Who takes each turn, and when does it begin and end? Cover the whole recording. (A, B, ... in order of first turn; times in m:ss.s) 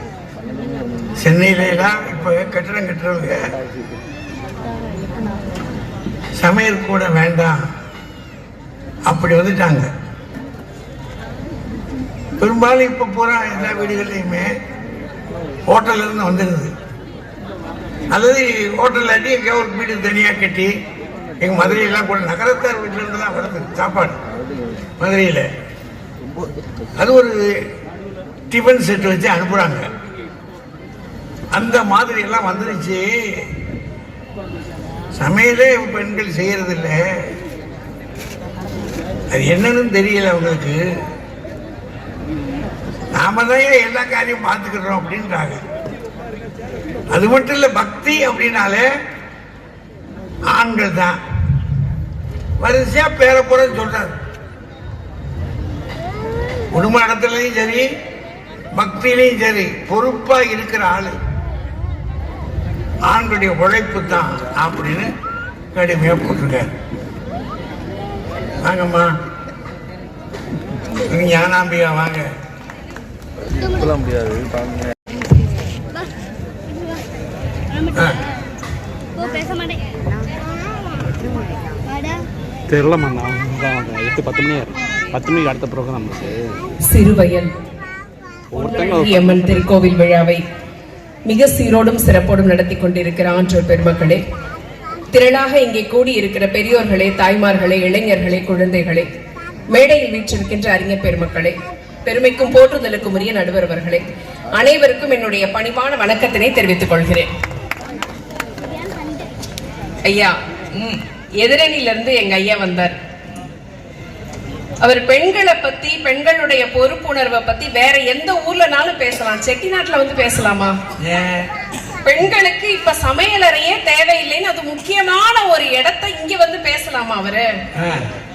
0:01.2-0:03.5 A
0:06.4-0:07.6 A
0:09.1-0:09.9 A
0:12.4-0:14.5 A
0:15.7-0:16.7 A
0:18.1-0:20.7 A
0:21.4-0:24.2 A
0:25.0-0:25.5 A
0:27.0-0:27.4 A
0:28.5-0:29.9 A
0:31.5-0:33.5 A
0:35.2-0:37.1 A
0:39.3-0:40.8 A
0:43.1-0:45.6 A
0:47.1-0:48.9 A
0:50.5-0:51.2 A
0:52.6-0:54.1 A
0:56.7-0:57.9 A
0:58.7-1:01.2 A
1:03.1-1:05.1 A
1:05.7-1:06.7 A
1:08.6-1:09.1 A
1:11.1-1:12.3 A
1:17.9-1:18.2 A
1:22.7-1:26.6 B
1:26.8-1:27.5 C
1:28.5-1:29.6 B
1:28.6-1:30.4 C
1:31.3-1:34.2 C
1:35.1-1:39.1 C
1:39.7-1:47.3 C
1:50.0-1:50.4 C
1:51.4-1:53.0 C
1:54.8-2:00.8 C
2:01.0-2:01.5 A
2:02.0-2:07.5 C
2:07.8-2:08.0 A